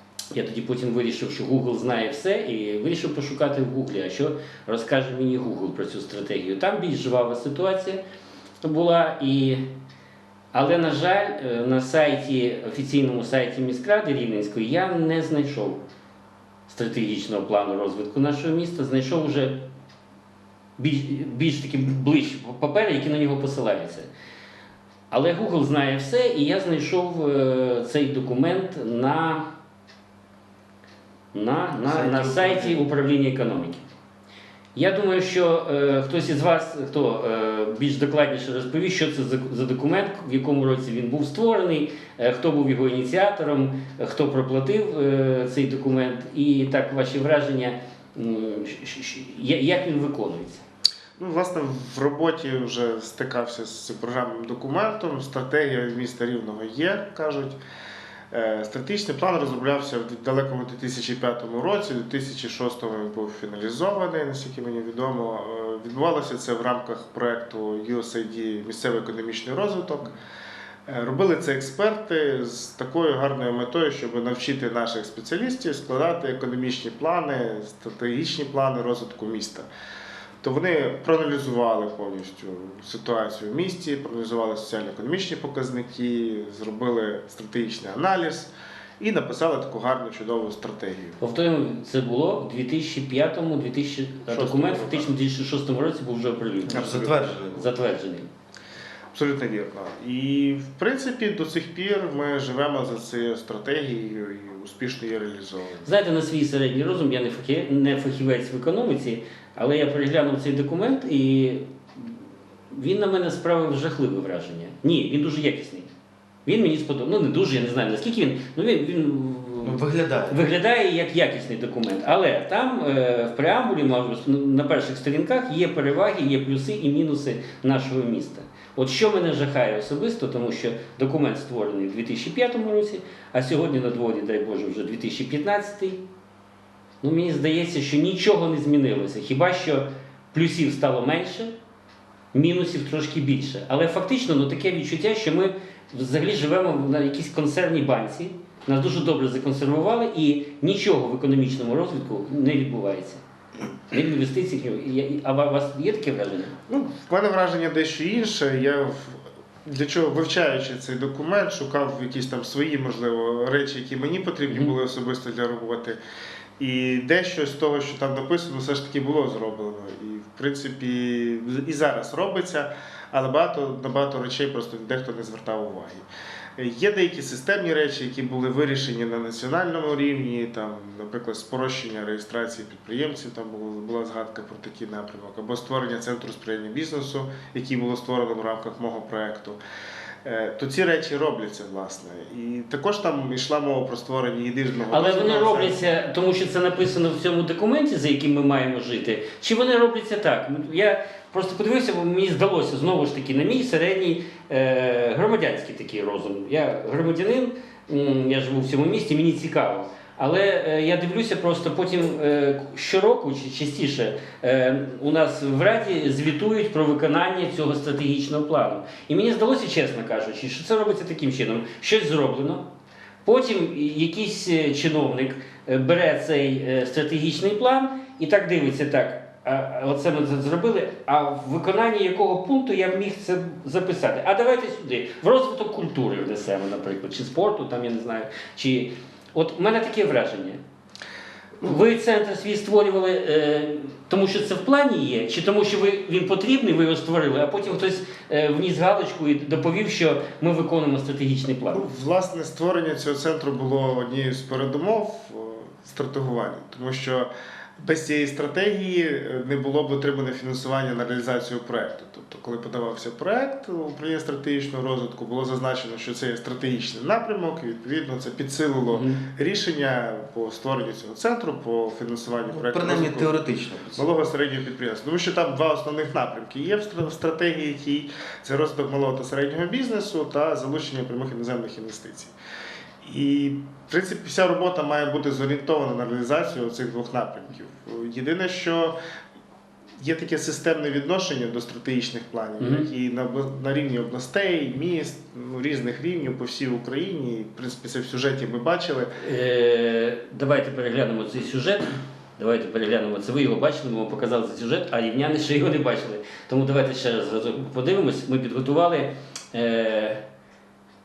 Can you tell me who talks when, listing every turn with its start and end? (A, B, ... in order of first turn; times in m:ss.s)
0:00.3-0:08.0 A
0:08.6-0:09.6 A
0:10.5-0:15.8 A
0:16.7-0:19.6 A
0:20.8-0:24.1 A
0:25.1-0:29.5 A
0:31.3-0:33.8 A
0:31.8-0:32.8 B
0:34.7-0:50.6 A
0:51.2-0:57.6 C
0:58.3-1:10.2 C
1:10.9-1:19.7 C
1:20.4-1:31.2 C
1:31.2-1:38.3 A
1:34.3-1:35.1 C
1:36.7-1:37.7 B
1:39.1-1:45.9 C
1:45.8-1:52.1 A
1:52.7-1:55.9 A
1:56.4-2:16.0 A
1:59.6-2:00.5 B
2:17.0-2:21.5 A
2:22.3-2:33.2 A
2:33.9-2:36.5 A
2:36.7-2:46.0 C
2:44.5-2:44.7 A
2:46.6-2:56.0 C
2:56.6-3:09.6 C
3:10.2-3:15.8 C
3:14.9-3:42.7 A
3:43.2-4:00.6 A
4:01.6-4:11.9 A
4:11.7-4:33.4 C
4:28.9-4:29.2 A
4:32.5-4:34.0 B
4:33.9-4:42.3 C
4:43.0-4:49.0 C
4:50.0-4:59.2 C
4:52.6-4:52.9 A
4:59.2-5:10.2 A